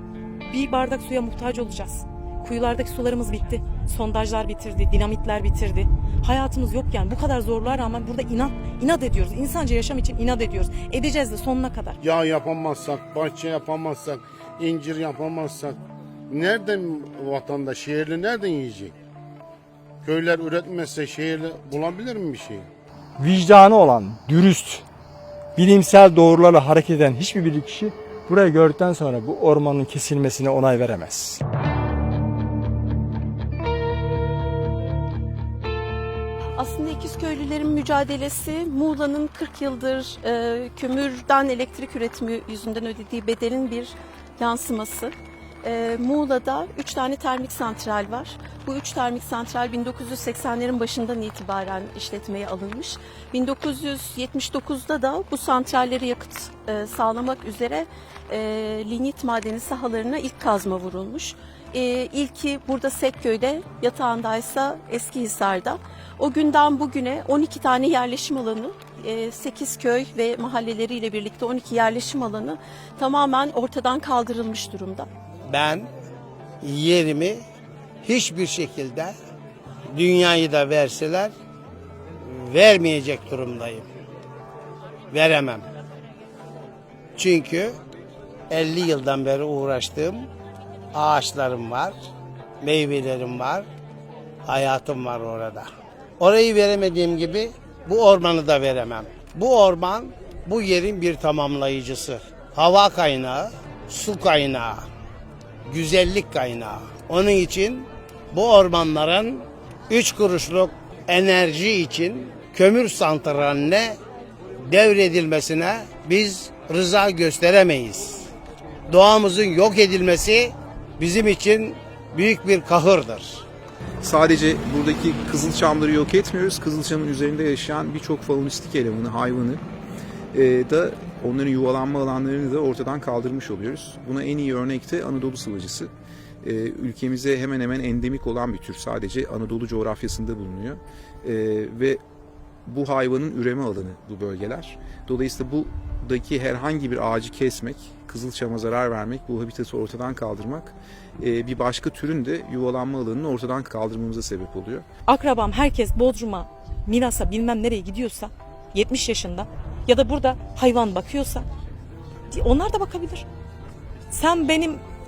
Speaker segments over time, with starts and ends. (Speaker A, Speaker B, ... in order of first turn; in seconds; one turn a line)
Speaker A: 0.5-12.0
Speaker B: 12.0-15.8
Speaker B: 16.3-18.9
Speaker B: 20.0-22.7
Speaker C: 23.2-24.9
Speaker C: 25.6-31.4
Speaker D: 36.5-75.1
Speaker E: 75.5-75.9
Speaker E: 76.6-77.4
Speaker E: 78.0-79.1
Speaker E: 79.9-81.3
Speaker E: 82.2-83.9
Speaker E: 85.1-85.7
Speaker E: 87.2-87.8
Speaker E: 88.5-90.3
Speaker E: 90.9-92.0
Speaker E: 92.6-93.7
Speaker E: 94.5-95.7
Speaker E: 96.2-104.8
Speaker E: 105.7-114.0
Speaker E: 114.6-118.3
Speaker E: 118.9-123.5
Speaker F: 124.0-129.6
Speaker F: 130.3-142.0
Speaker F: 142.7-154.8
Speaker A: 155.1-161.5
Speaker A: 162.3-163.2
Speaker A: 164.1-164.8